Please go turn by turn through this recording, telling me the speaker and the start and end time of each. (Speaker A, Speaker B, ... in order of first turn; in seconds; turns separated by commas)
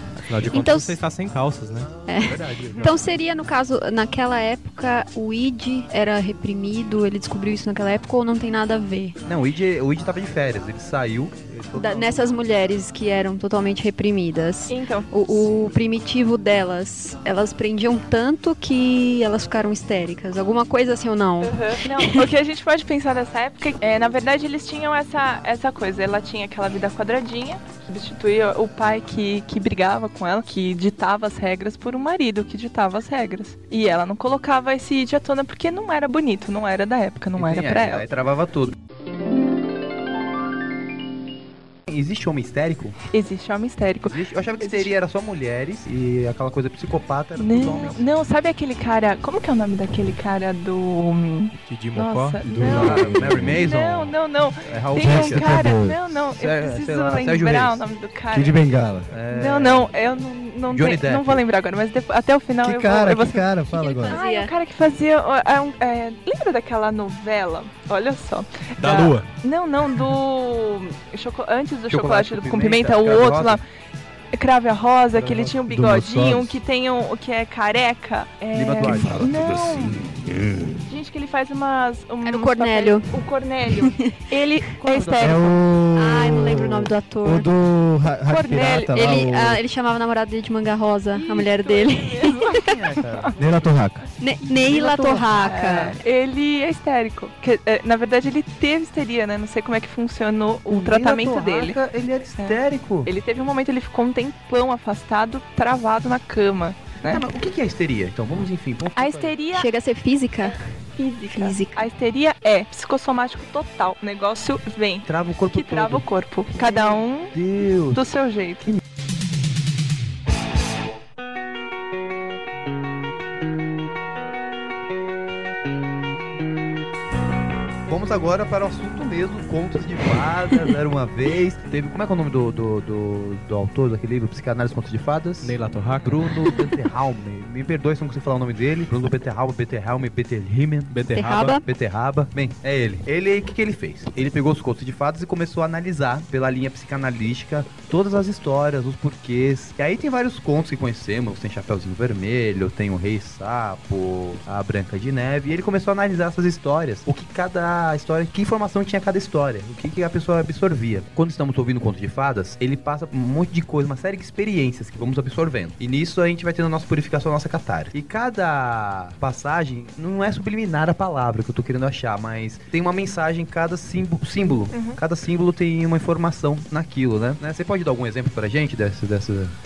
Speaker A: 0.3-1.9, Speaker B: 0.4-0.6, Speaker C: 0.5-1.0, Speaker C: 2.1-9.2, Speaker B: 2.1-3.1, Speaker B: 9.2-12.3, Speaker C: 11.7-22.3, Speaker D: 14.7-15.1, Speaker D: 21.4-38.0, Speaker B: 37.4-38.8, Speaker B: 41.9-43.0, Speaker D: 43.1-44.9, Speaker B: 44.0-48.0, Speaker D: 47.4-58.6, Speaker A: 51.7-52.4, Speaker E: 52.4-53.7, Speaker B: 52.6-54.1, Speaker B: 54.6-55.6, Speaker E: 54.9-56.0, Speaker B: 56.2-57.8, Speaker E: 58.3-59.1, Speaker B: 59.1-59.9, Speaker D: 59.3-73.6, Speaker B: 60.7-61.4, Speaker E: 62.6-64.2, Speaker C: 63.9-64.5, Speaker A: 68.8-69.3, Speaker B: 71.9-73.6, Speaker D: 74.3-80.1, Speaker B: 75.2-75.6, Speaker E: 75.7-76.6, Speaker B: 78.5-79.2, Speaker E: 78.8-80.8, Speaker D: 80.8-85.5, Speaker C: 82.2-84.2, Speaker B: 84.8-85.5, Speaker E: 85.2-89.6, Speaker C: 85.9-87.5, Speaker D: 88.3-89.0, Speaker C: 88.9-92.7, Speaker D: 91.1-93.3, Speaker B: 92.5-93.5, Speaker E: 93.4-94.0, Speaker C: 94.2-96.0, Speaker D: 94.7-101.8, Speaker B: 94.7-95.0, Speaker B: 100.7-103.1, Speaker D: 102.4-107.2, Speaker B: 107.1-109.4, Speaker D: 109.0-109.7, Speaker C: 109.5-110.6, Speaker D: 110.5-117.3, Speaker C: 111.3-111.8, Speaker B: 115.0-118.0, Speaker D: 117.9-118.7, Speaker B: 127.9-141.1, Speaker A: 135.4-136.3, Speaker A: 140.9-141.6, Speaker C: 141.1-141.6, Speaker B: 141.6-179.6, Speaker D: 174.7-175.0